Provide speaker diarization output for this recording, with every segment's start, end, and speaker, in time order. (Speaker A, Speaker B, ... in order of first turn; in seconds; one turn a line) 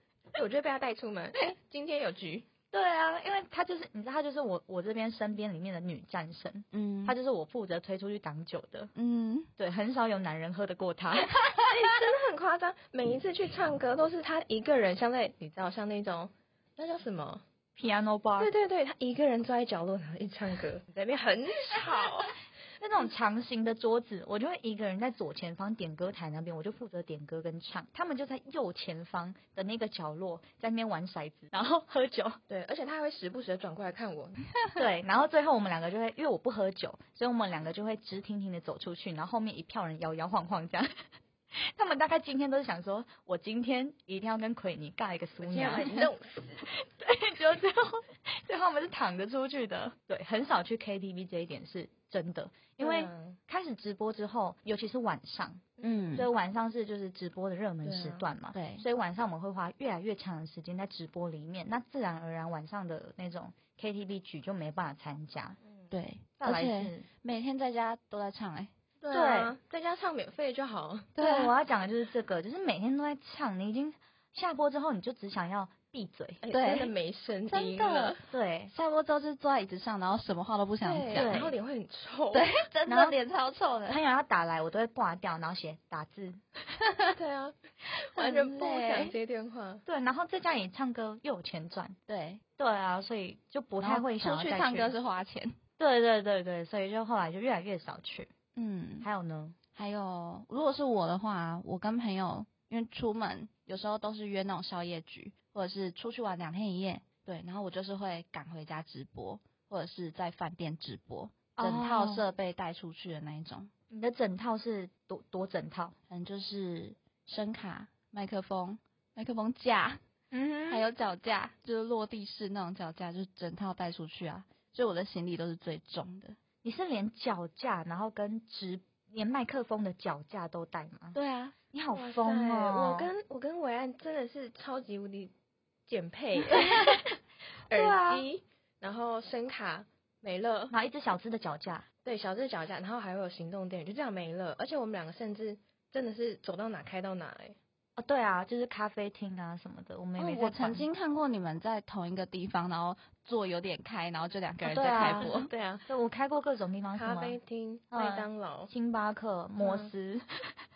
Speaker A: 0.3-2.5
Speaker B: 2.7-8.9
Speaker C: 6.7-7.2
Speaker C: 8.9-9.5
Speaker B: 9.6-11.4
Speaker A: 11.6-17.4
Speaker B: 17.8-18.5
Speaker A: 18.4-22.3
Speaker B: 22.8-32.4
Speaker A: 32.5-34.4
Speaker B: 34.8-40.9
Speaker B: 41.6-46.1
Speaker A: 45.4-46.7
Speaker B: 46.7-65.6
Speaker A: 52.8-53.4
Speaker A: 55.8-56.1
Speaker C: 55.8-56.3
Speaker A: 57.8-58.3
Speaker C: 58.5-58.8
Speaker C: 65.9-68.7
Speaker B: 66.4-67.1
Speaker A: 69.0-71.2
Speaker B: 69.1-69.5
Speaker C: 71.2-71.5
Speaker B: 71.2-76.4
Speaker A: 76.4-78.2
Speaker C: 76.5-76.9
Speaker C: 77.5-81.5
Speaker B: 78.3-78.7
Speaker A: 80.8-82.5
Speaker B: 81.1-81.5
Speaker C: 82.3-84.0
Speaker B: 82.9-83.2
Speaker B: 83.9-86.4
Speaker A: 87.1-89.8
Speaker C: 88.1-89.1
Speaker B: 89.8-92.0
Speaker C: 92.1-92.4
Speaker B: 92.6-94.9
Speaker C: 93.8-95.6
Speaker B: 95.8-98.3
Speaker C: 98.5-99.1
Speaker B: 99.0-99.6
Speaker C: 99.7-113.7
Speaker B: 111.5-112.3
Speaker B: 113.9-116.0
Speaker C: 116.1-120.0
Speaker B: 120.3-120.9
Speaker C: 120.7-126.4
Speaker B: 126.6-131.2
Speaker C: 131.1-131.5
Speaker B: 131.7-133.1
Speaker A: 131.9-135.3
Speaker A: 135.9-136.9
Speaker A: 137.7-140.7
Speaker B: 137.7-138.3
Speaker B: 140.7-141.9
Speaker A: 142.0-147.6
Speaker B: 147.9-150.9
Speaker C: 150.2-155.5
Speaker B: 154.6-155.3
Speaker A: 155.0-155.9
Speaker B: 155.9-157.4
Speaker A: 156.9-158.7
Speaker B: 157.9-160.5
Speaker A: 159.6-159.9